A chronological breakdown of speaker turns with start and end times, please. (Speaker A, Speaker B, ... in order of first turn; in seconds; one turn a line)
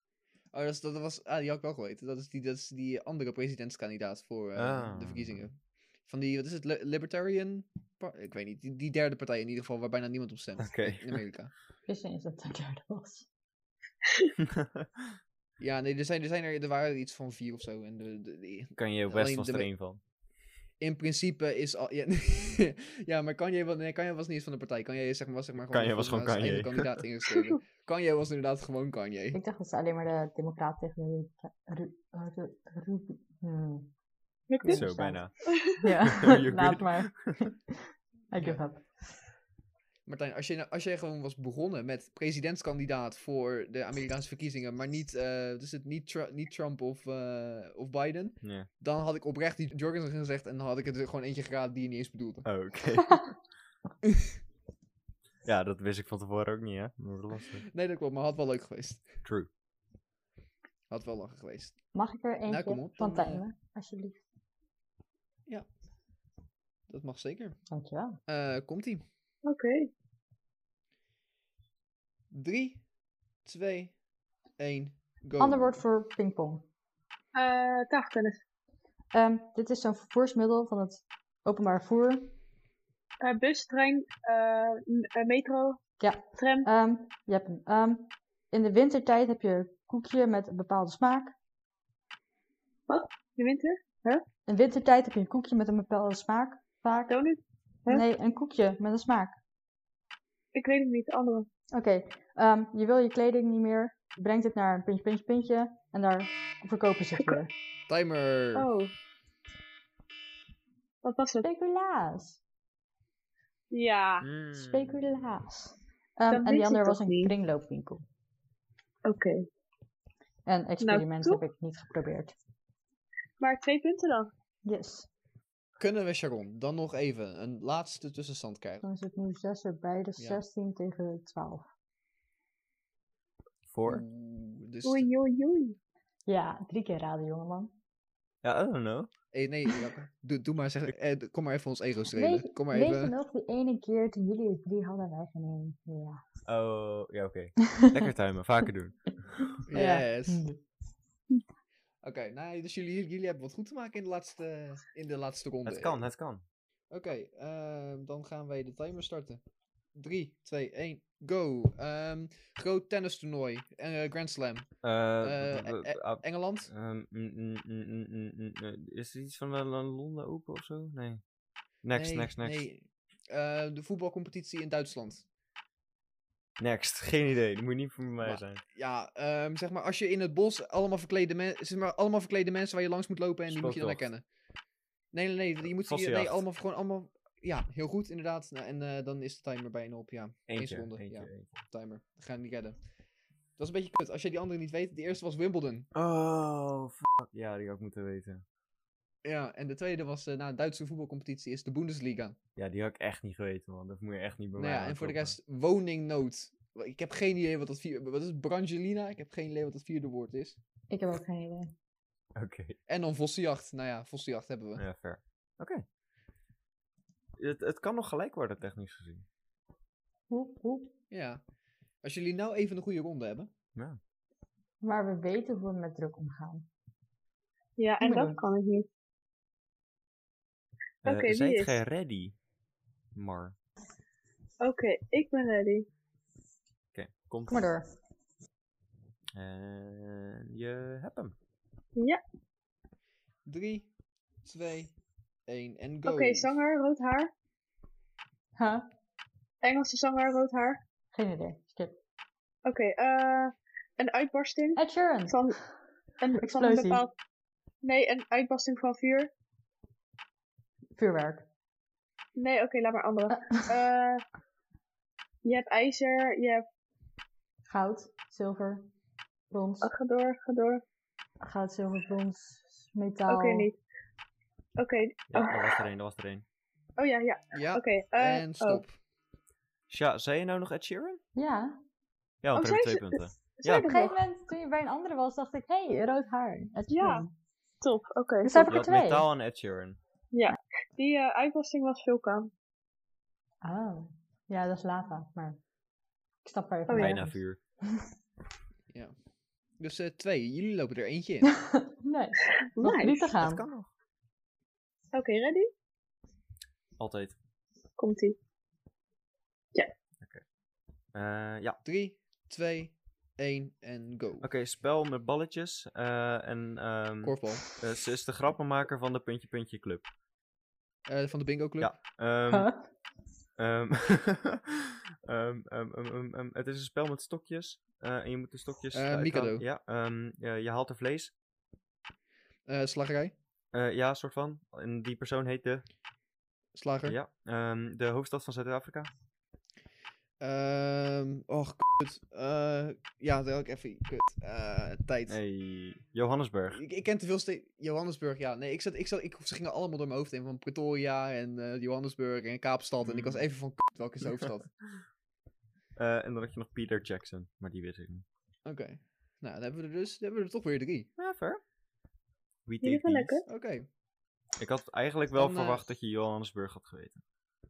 Speaker A: 0.5-11.5
Speaker B: 4.5-5.4
Speaker B: 10.6-11.2
Speaker C: 11.8-13.3
Speaker B: 14.4-15.1
Speaker A: 15.6-19.7
Speaker B: 18.8-20.0
Speaker A: 20.8-29.4
Speaker B: 25.7-27.0
Speaker C: 29.3-33.9
Speaker D: 34.5-34.9
Speaker C: 34.6-39.0
Speaker B: 34.6-37.4
Speaker D: 35.5-35.8
Speaker A: 38.3-38.6
Speaker A: 40.0-52.5
Speaker B: 48.4-48.7
Speaker B: 52.4-53.4
Speaker A: 54.0-54.3
Speaker B: 55.4-57.6
Speaker A: 57.6-59.1
Speaker B: 59.2-59.5
Speaker A: 60.9-61.8
Speaker C: 61.9-64.2
Speaker A: 62.5-63.4
Speaker A: 66.9-67.6
Speaker C: 67.7-68.2
Speaker A: 68.3-69.0
Speaker D: 69.4-69.9
Speaker A: 72.3-72.8
Speaker A: 73.4-74.0
Speaker A: 74.6-75.8
Speaker C: 75.4-76.7
Speaker D: 77.3-78.4
Speaker C: 79.1-82.3
Speaker D: 83.2-85.8
Speaker C: 86.0-91.3
Speaker D: 86.3-86.7
Speaker D: 92.9-94.2
Speaker C: 94.5-97.2
Speaker D: 97.1-98.0
Speaker C: 97.8-99.3
Speaker D: 100.5-101.5
Speaker C: 101.7-107.5
Speaker A: 107.9-108.7
Speaker D: 108.5-108.9
Speaker D: 111.0-111.5
Speaker C: 111.4-112.4
Speaker D: 113.7-114.3
Speaker B: 114.2-115.0
Speaker C: 114.5-118.0
Speaker D: 116.3-117.3
Speaker D: 119.0-119.5
Speaker C: 120.5-122.3
Speaker D: 120.8-121.4
Speaker D: 123.4-124.3
Speaker C: 124.6-125.1
Speaker A: 125.8-128.8
Speaker C: 128.8-131.6
Speaker A: 130.2-130.4
Speaker B: 133.7-134.0
Speaker A: 133.8-135.1
Speaker D: 134.8-135.8
Speaker C: 136.3-137.7
Speaker B: 138.4-139.1
Speaker A: 139.3-143.1
Speaker C: 142.1-146.2
Speaker B: 146.4-149.6
Speaker A: 149.7-150.4
Speaker C: 149.7-150.6
Speaker A: 152.0-156.0
Speaker B: 155.7-156.4
Speaker A: 156.9-159.4
Speaker A: 159.9-166.7
Speaker B: 164.8-171.2
Speaker B: 171.8-172.6
Speaker A: 171.9-175.2
Speaker B: 176.6-178.6
Speaker A: 178.2-184.2
Speaker B: 183.5-184.1
Speaker A: 185.1-192.8
Speaker B: 185.6-186.4
Speaker B: 190.5-191.6
Speaker A: 193.6-195.9
Speaker B: 195.9-198.4
Speaker A: 199.2-202.4
Speaker B: 202.6-205.3
Speaker A: 204.6-210.6
Speaker C: 210.9-211.7
Speaker B: 212.3-212.8
Speaker A: 212.8-214.8
Speaker B: 214.8-215.8
Speaker B: 217.4-219.2
Speaker C: 220.3-220.9
Speaker A: 221.1-221.4
Speaker A: 222.0-223.5
Speaker C: 224.8-226.7
Speaker D: 227.8-228.9
Speaker C: 228.0-228.4
Speaker B: 231.0-232.3
Speaker D: 231.1-231.8
Speaker B: 233.1-233.5
Speaker D: 234.6-235.9
Speaker B: 236.9-237.7
Speaker C: 237.5-237.8
Speaker B: 239.3-241.3
Speaker D: 241.9-242.2
Speaker A: 243.4-243.9
Speaker A: 244.4-244.9
Speaker A: 245.5-246.5
Speaker D: 246.1-247.3
Speaker C: 248.6-248.8
Speaker D: 249.6-250.8
Speaker C: 251.1-252.0
Speaker D: 252.6-255.6
Speaker C: 254.8-255.6
Speaker D: 256.2-257.1
Speaker C: 256.4-257.0
Speaker D: 257.8-259.3
Speaker C: 260.9-261.4
Speaker D: 262.4-264.2
Speaker C: 263.3-263.7
Speaker D: 265.4-266.6
Speaker C: 267.7-268.9
Speaker C: 269.5-269.9
Speaker D: 269.8-270.8
Speaker C: 271.4-273.7
Speaker D: 273.3-273.8
Speaker D: 274.8-275.8
Speaker B: 275.3-276.4
Speaker D: 277.0-278.8
Speaker A: 277.5-278.9
Speaker B: 279.9-281.2
Speaker C: 281.3-281.8
Speaker B: 282.4-283.9
Speaker D: 282.5-284.2
Speaker C: 283.8-287.3
Speaker D: 286.9-287.2
Speaker D: 287.8-288.6
Speaker C: 288.4-289.2
Speaker B: 288.5-290.0
Speaker D: 290.3-292.5
Speaker C: 293.6-295.6
Speaker C: 296.4-298.0
Speaker D: 296.9-297.2
Speaker B: 296.9-297.6
Speaker A: 298.9-299.1
Speaker A: 299.8-301.5
Speaker C: 301.6-303.6
Speaker D: 302.7-303.3
Speaker B: 303.4-303.9
Speaker D: 305.1-305.7
Speaker B: 307.0-307.3
Speaker D: 308.0-308.4
Speaker B: 311.1-311.8
Speaker A: 311.8-314.5
Speaker B: 314.4-320.0
Speaker A: 317.2-317.6
Speaker A: 321.1-321.9
Speaker B: 321.8-322.7
Speaker C: 322.5-322.8
Speaker B: 323.6-331.3
Speaker A: 328.9-329.6
Speaker A: 332.7-333.3
Speaker B: 333.7-335.9
Speaker A: 336.7-337.2
Speaker B: 337.1-339.1
Speaker A: 340.4-345.4
Speaker B: 345.3-346.8
Speaker A: 346.7-354.7
Speaker B: 353.0-353.4
Speaker B: 355.9-358.2
Speaker A: 358.6-361.1
Speaker B: 361.2-361.6
Speaker B: 362.6-363.4
Speaker D: 362.8-363.5
Speaker A: 363.5-363.9
Speaker B: 364.6-367.2
Speaker A: 365.3-365.9